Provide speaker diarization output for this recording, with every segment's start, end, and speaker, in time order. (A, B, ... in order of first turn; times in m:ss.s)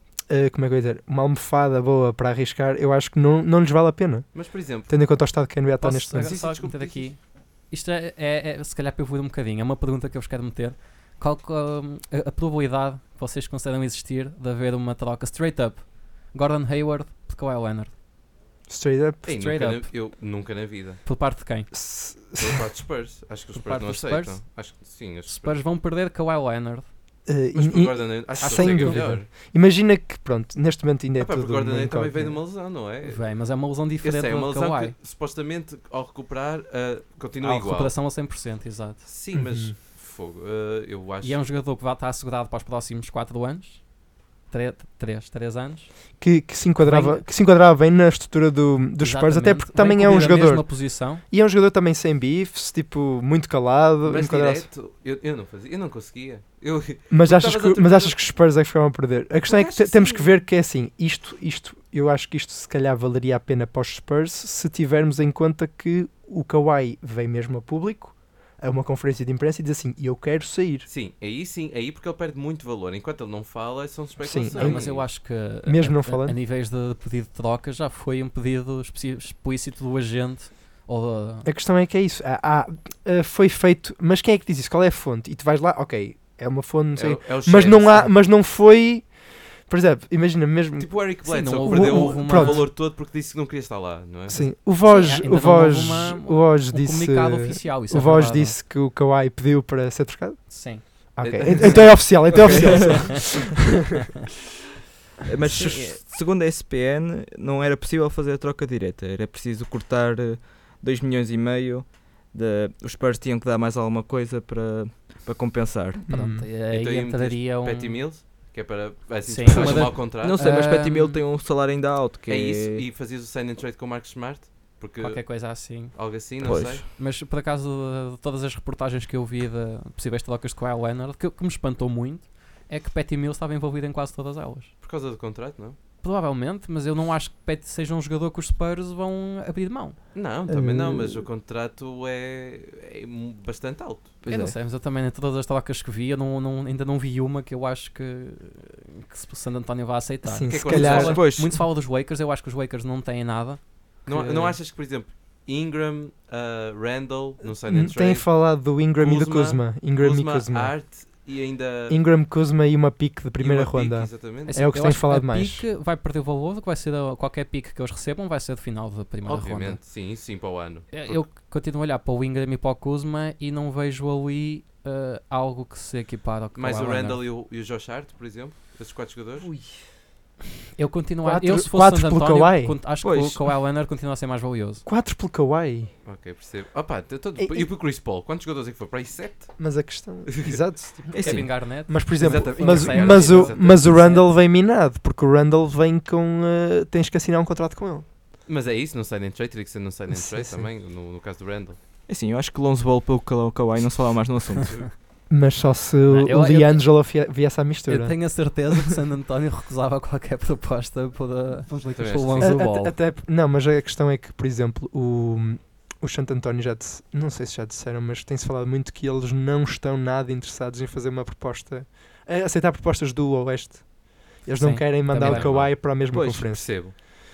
0:00.3-0:06.4 A
0:04.3-0:05.0 B
0:05.8-0:17.9 C
0:06.2-0:07.1 B
0:18.7-0:19.3 A
0:19.2-0:21.0 B
0:19.3-0:19.9 C
0:21.0-0:21.7 C
0:21.7-0:22.6 A
0:22.4-0:25.6 B
0:23.5-0:24.5 C
0:25.2-0:26.9 C
0:27.3-0:32.4 A
0:27.5-0:29.3 B
0:28.4-0:29.2 C
0:31.2-0:33.4 B
0:33.0-0:35.0 C
0:34.0-0:38.0 B
0:37.4-0:39.0 C
0:39.0-0:41.4 B
0:39.3-0:39.8 A
0:41.2-0:43.8 C
0:44.5-0:46.0 C
0:46.2-0:54.7 A
0:46.8-0:47.2 C
0:49.0-0:51.2 C
0:54.0-0:58.2 B
0:57.1-1:10.9 A
0:59.5-1:00.3 B
1:10.9-1:15.1 B
1:14.2-1:16.4 A
1:14.5-1:21.5 C
1:21.4-1:32.7 A
1:27.0-1:28.2 B
1:30.8-1:34.5 B
1:31.2-1:32.7 C
1:34.3-1:43.7 A
1:34.9-1:38.6 C
1:40.5-1:41.0 C
1:41.2-1:42.5 B
1:42.3-1:43.1 D
1:45.3-1:56.0 D
1:45.4-1:46.0 C
1:56.1-1:56.5 A
1:56.1-1:58.0 C
1:56.7-2:00.4 B
1:59.2-2:01.2 C
1:59.5-2:02.8 D
2:02.3-2:06.8 B
2:05.0-2:06.0 C
2:06.4-2:06.8 D
2:06.9-2:14.7 C
2:14.8-2:15.8 B
2:16.0-2:20.0 C
2:20.1-2:24.2 B
2:20.5-2:21.3 A
2:24.2-2:24.6 D
2:24.3-2:34.6 C
2:30.2-2:31.2 A
2:30.5-2:31.2 B
2:30.7-2:31.6 D
2:34.1-2:42.0 B
2:37.4-2:40.8 A
2:41.9-2:45.7 A
2:43.4-2:44.6 B
2:44.4-2:49.8 C
2:49.2-2:51.2 B
2:50.9-2:57.2 C
2:56.6-2:59.5 B
3:00.8-3:04.8 C
3:01.2-3:02.8 A
3:03.0-3:03.4 D
3:04.9-3:05.9 A
3:06.0-3:10.6 B
3:07.4-3:07.7 A
3:09.6-3:18.1 A
3:11.1-3:14.3 C
3:11.1-3:11.9 D
3:12.2-3:14.1 B
3:18.5-3:21.8 B
3:20.1-3:20.7 A
3:22.1-3:24.9 D
3:25.3-3:28.5 A
3:26.1-3:27.0 C
3:27.9-3:33.0 C
3:31.7-3:47.1 A
3:32.0-3:32.6 B
3:44.6-3:45.5 C
3:45.1-3:45.8 B
3:46.1-3:46.5 D
3:46.5-3:47.0 B